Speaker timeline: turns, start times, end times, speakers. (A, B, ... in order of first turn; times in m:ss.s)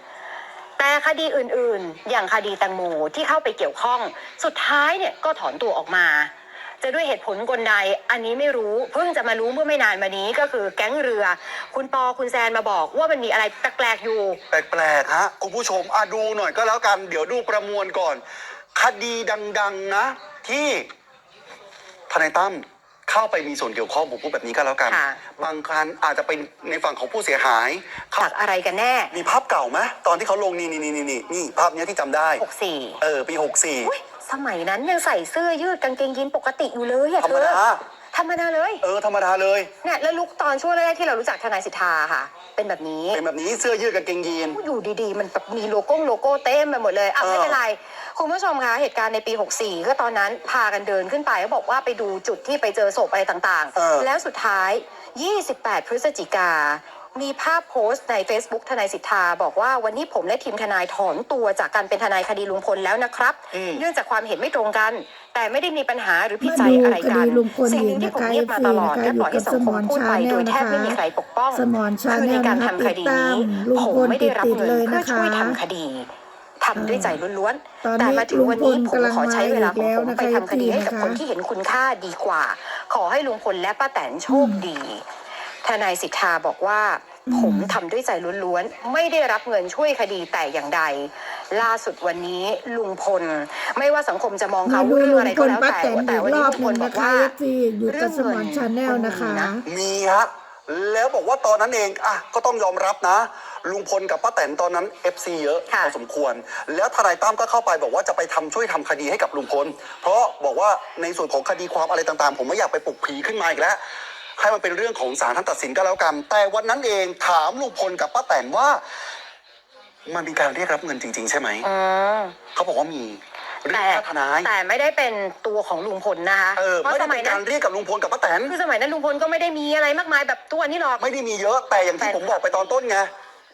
0:00.8-0:14.4 A
0:14.5-0:18.2 B
0:18.7-0:20.9 B
0:22.1-0:28.3 B
0:24.9-0:25.2 A
0:28.2-0:29.1 A
0:29.1-0:32.4 B
0:32.4-0:33.0 A
0:33.0-0:33.9 B
0:33.8-0:37.6 A
0:37.2-0:37.8 B
0:38.1-0:38.8 A
0:38.8-0:39.7 B
0:39.8-0:43.2 A
0:43.1-0:44.6 B
0:44.5-1:16.1 A
0:47.2-0:47.6 B
0:53.8-0:54.1 B
1:03.5-1:03.8 B
1:06.4-1:11.0 C
1:11.5-1:15.6 C
1:16.6-1:25.0 A
1:16.7-1:17.2 C
1:17.8-1:21.2 C
1:24.3-1:24.6 C
1:25.6-1:37.3 A
1:27.3-1:27.8 C
1:34.6-1:39.6 C
1:37.9-1:39.5 A
1:39.6-1:53.8 B
1:54.4-1:58.8 B
2:00.1-2:01.7 B
2:01.6-2:02.4 A
2:02.5-2:04.5 B
2:03.7-2:07.4 A
2:06.6-2:08.5 B
2:08.5-2:11.0 A
2:11.0-2:13.1 B
2:11.7-2:12.7 A